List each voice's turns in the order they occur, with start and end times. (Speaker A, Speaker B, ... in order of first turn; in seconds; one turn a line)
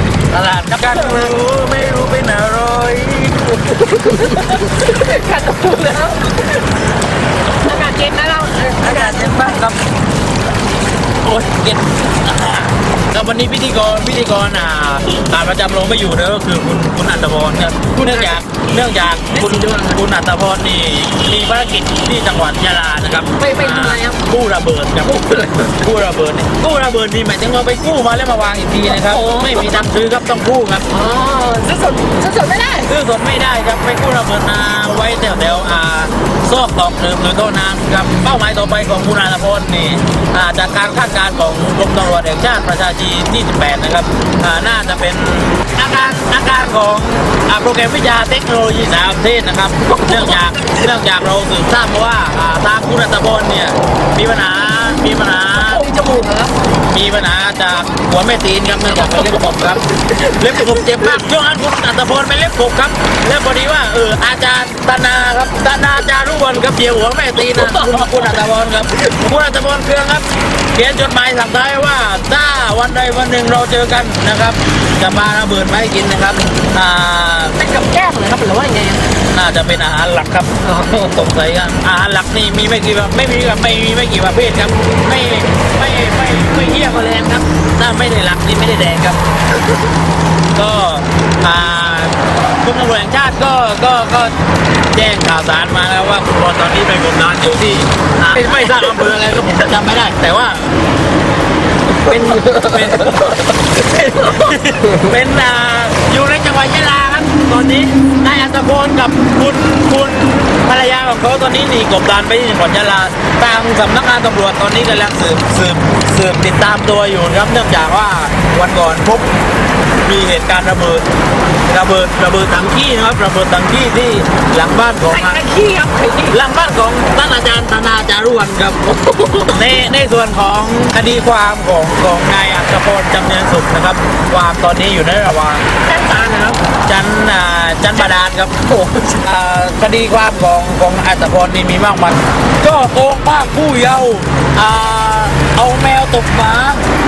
Speaker A: 0.3-4.8
Speaker B: 0.9-1.2
Speaker B: 3.7-6.6
Speaker B: 7.6-9.5
Speaker A: 8.8-9.8
Speaker A: 11.2-30.9
Speaker B: 17.9-18.4
Speaker B: 19.3-20.0
Speaker B: 23.4-24.2
Speaker B: 25.0-25.8
Speaker B: 28.8-29.8
Speaker B: 30.9-32.9
Speaker A: 32.9-55.9
Speaker B: 49.8-50.9
Speaker B: 55.5-56.5
Speaker A: 56.9-77.6
Speaker B: 58.9-60.8
Speaker B: 67.4-68.1
Speaker B: 77.5-79.0
Speaker A: 79.3-89.2
Speaker B: 80.6-81.1
Speaker A: 90.5-94.3
Speaker A: 94.9-100.7
Speaker B: 98.4-99.1
Speaker A: 102.0-119.3
Speaker B: 102.0-103.3
Speaker B: 104.1-104.5
Speaker A: 120.0-121.0
Speaker A: 121.7-125.4
Speaker B: 125.0-126.4
Speaker A: 126.3-128.8
Speaker B: 128.9-129.6
Speaker A: 129.5-135.6
Speaker B: 135.8-136.6
Speaker A: 136.9-138.5
Speaker B: 138.7-139.2
Speaker A: 139.2-146.8